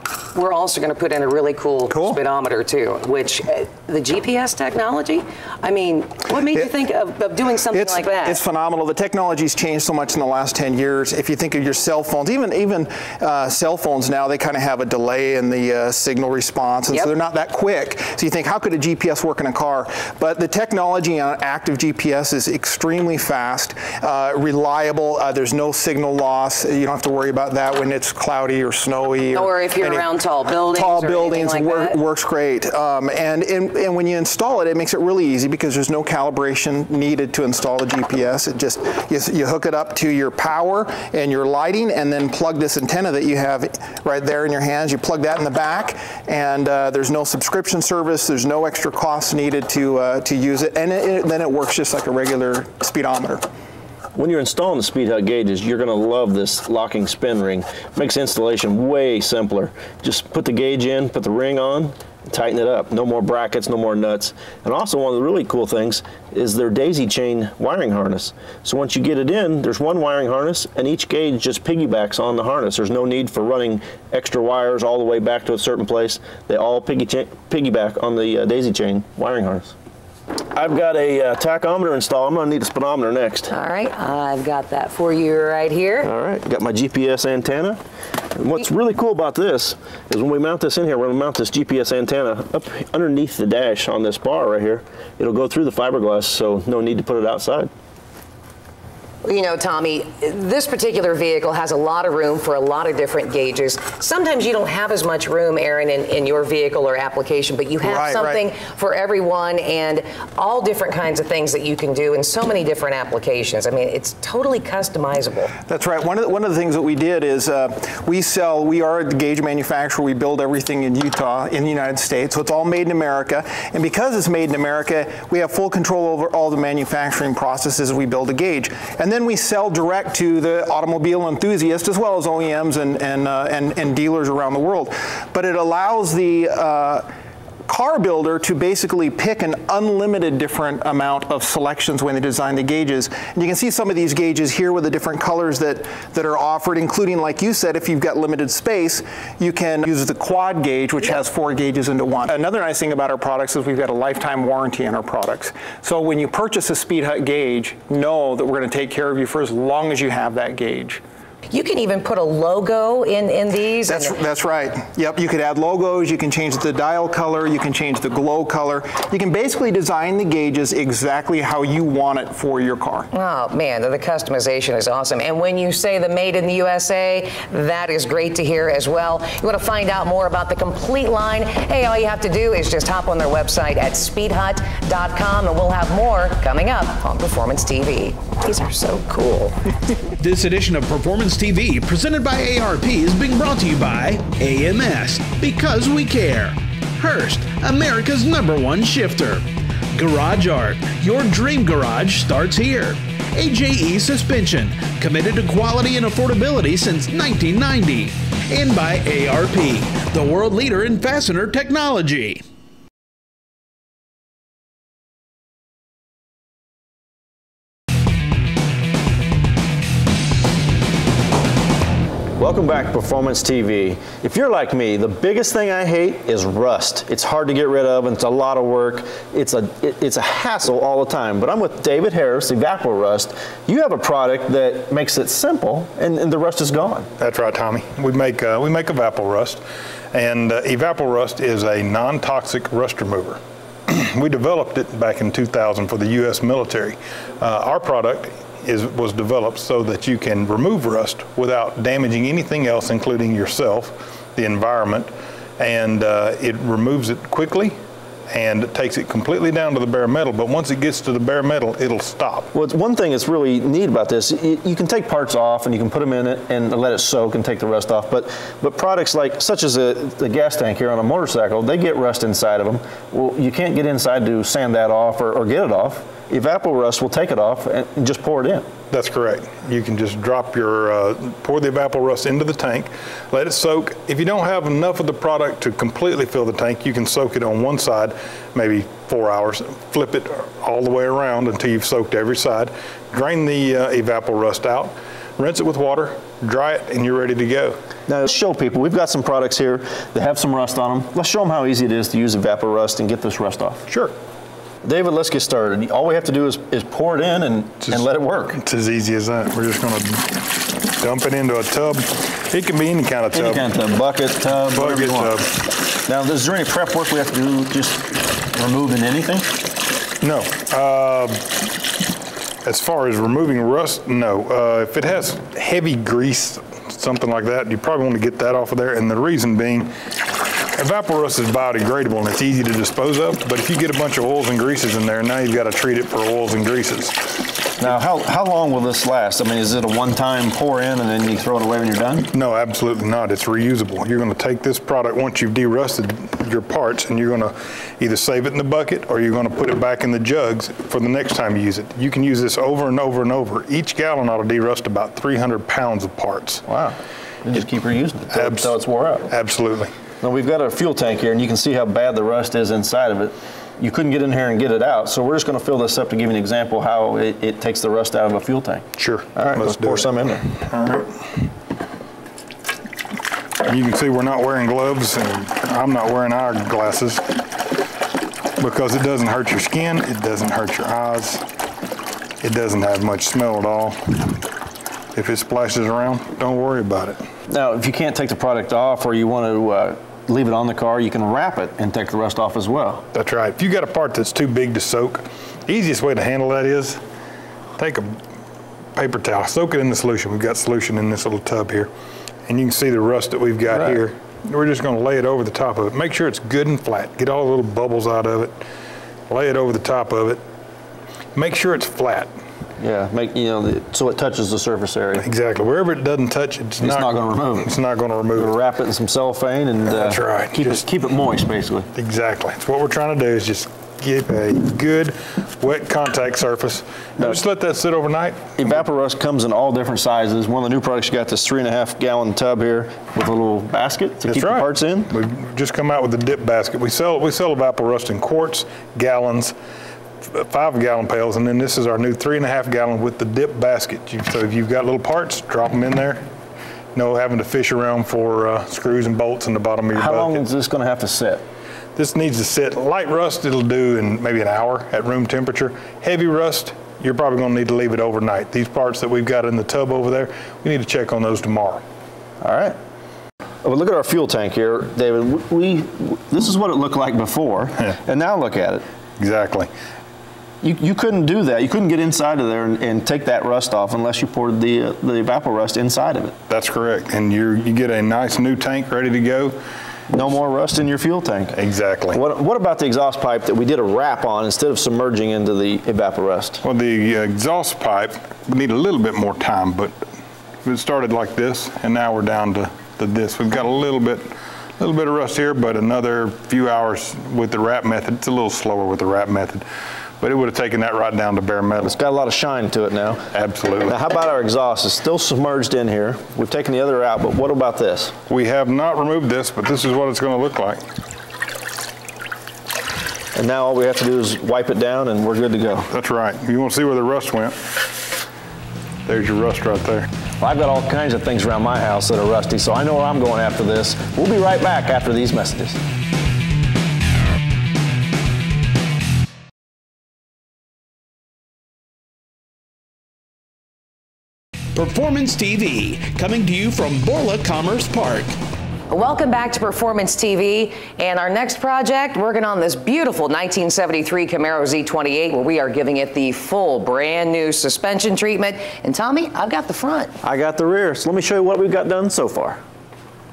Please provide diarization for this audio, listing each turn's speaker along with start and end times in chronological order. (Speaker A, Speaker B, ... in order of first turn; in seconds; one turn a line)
Speaker A: 0.3-8.4
Speaker B: 1.9-2.2
Speaker B: 7.7-30.1
Speaker A: 29.3-32.0
Speaker B: 30.7-53.4
Speaker C: 54.1-79.7
Speaker C: 80.5-83.5
Speaker A: 83.5-86.1
Speaker C: 86.0-87.8
Speaker C: 88.3-97.7
Speaker A: 99.2-115.5
Speaker B: 107.8-108.4
Speaker B: 115.7-137.1
Speaker B: 137.7-161.0
Speaker A: 161.5-164.2
Speaker B: 163.9-173.1
Speaker A: 173.1-189.6
Speaker D: 190.2-212.4
Speaker C: 222.4-237.1
Speaker E: 237.2-239.6
Speaker E: 240.1-257.8
Speaker E: 258.3-262.5
Speaker C: 262.5-278.7
Speaker E: 278.9-297.8
Speaker C: 298.1-303.9
Speaker E: 303.9-304.1
Speaker C: 304.8-308.6
Speaker E: 308.5-313.6
Speaker C: 313.3-319.6
Speaker E: 314.7-315.6
Speaker E: 320.2-321.7
Speaker E: 322.6-329.9
Speaker E: 330.8-337.5
Speaker C: 337.8-342.3
Speaker E: 342.3-356.6
Speaker C: 356.7-359.3
Speaker E: 358.3-358.7
Speaker E: 359.3-359.9
Speaker C: 360.2-370.5
Speaker E: 369.0-371.1
Speaker E: 373.6-377.3
Speaker E: 378.6-381.4
Speaker E: 382.4-384.4
Speaker E: 385.1-387.2
Speaker C: 387.5-393.1
Speaker E: 393.1-397.0
Speaker E: 397.8-398.2
Speaker E: 398.9-401.9
Speaker E: 402.5-408.6
Speaker C: 403.7-404.0
Speaker E: 409.3-410.4
Speaker E: 411.3-412.3
Speaker C: 412.8-415.2
Speaker E: 415.2-418.5
Speaker C: 416.8-417.7
Speaker C: 418.3-421.9
Speaker E: 419.9-420.8
Speaker E: 421.9-428.8
Speaker C: 428.6-435.1
Speaker E: 434.3-439.5
Speaker E: 440.3-446.2
Speaker E: 446.9-450.4
Speaker C: 449.9-451.4
Speaker E: 451.9-461.8
Speaker C: 462.4-462.8
Speaker C: 463.6-468.8
Speaker E: 469.2-469.7
Speaker C: 470.6-476.4
Speaker E: 476.5-479.6
Speaker C: 480.1-481.6
Speaker E: 481.6-482.2
Speaker C: 482.1-486.6
Speaker E: 486.6-489.9
Speaker E: 490.6-499.6
Speaker E: 500.2-501.9
Speaker C: 501.8-503.3
Speaker E: 503.3-504.0
Speaker C: 503.9-508.1
Speaker E: 508.3-510.8
Speaker C: 513.3-515.9
Speaker E: 515.9-517.5
Speaker E: 519.0-520.1
Speaker C: 520.4-525.8
Speaker D: 534.7-538.4
Speaker A: 538.9-550.1
Speaker C: 550.2-552.6